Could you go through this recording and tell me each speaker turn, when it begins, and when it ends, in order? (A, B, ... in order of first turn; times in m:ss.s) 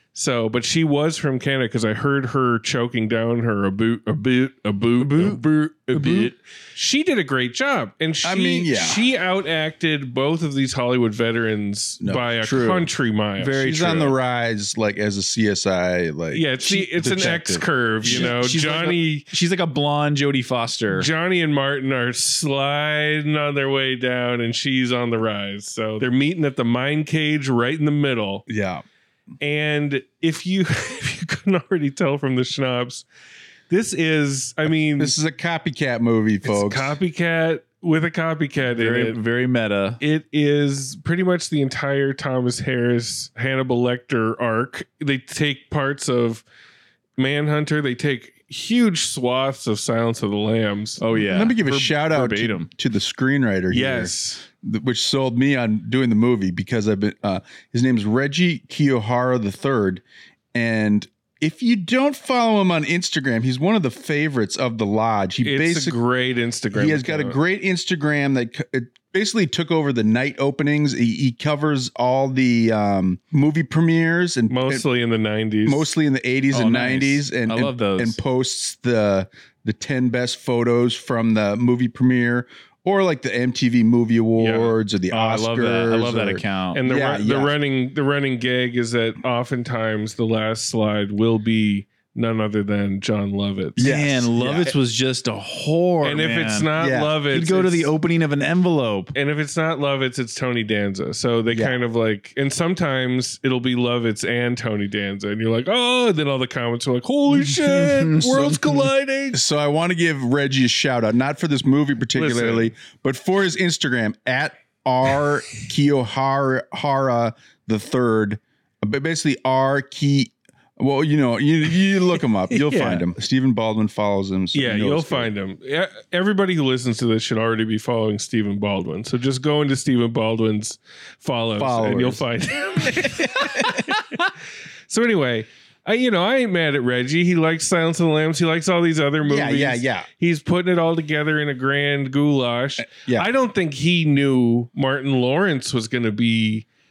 0:00.1-0:14.0 A
0:05.0-0:06.4 B
0:08.2-0:09.0 C
0:12.0-0:12.3 C
0:12.4-0:12.8 B
0:13.4-0:18.4 C
0:16.3-0:19.3 A
0:16.6-0:21.1 B
0:20.9-0:28.4 A
0:28.5-0:28.8 C
0:29.4-0:33.0 A
0:33.7-0:35.1 A
0:35.0-0:37.0 C
0:36.4-0:39.2 A
0:38.7-0:40.0 B
0:40.0-0:46.4 A
0:47.2-0:51.0 A
0:51.0-0:52.7 B
0:51.1-1:00.0 C
0:53.7-0:54.4 A
1:00.5-1:06.0 C
1:05.4-1:07.4 A
1:06.7-1:14.8 C
1:14.5-1:15.9 A
1:15.6-1:27.5 C
1:16.5-1:18.2 B
1:24.4-1:24.7 A
1:25.1-1:26.8 B
1:26.7-1:33.9 A
1:33.8-1:34.7 C
1:33.8-1:36.7 B
1:36.0-1:37.9 A
1:36.8-1:37.1 C
1:37.3-1:39.1 B
1:39.1-1:49.4 A
1:41.5-1:41.8 C
1:47.3-1:48.8 B
1:49.3-2:05.3 C
1:52.1-1:52.7 A
2:02.5-2:03.0 A
2:04.5-2:14.2 A
2:11.6-2:12.2 C
2:14.9-2:26.6 A
2:19.2-2:20.1 C
2:22.8-2:23.3 C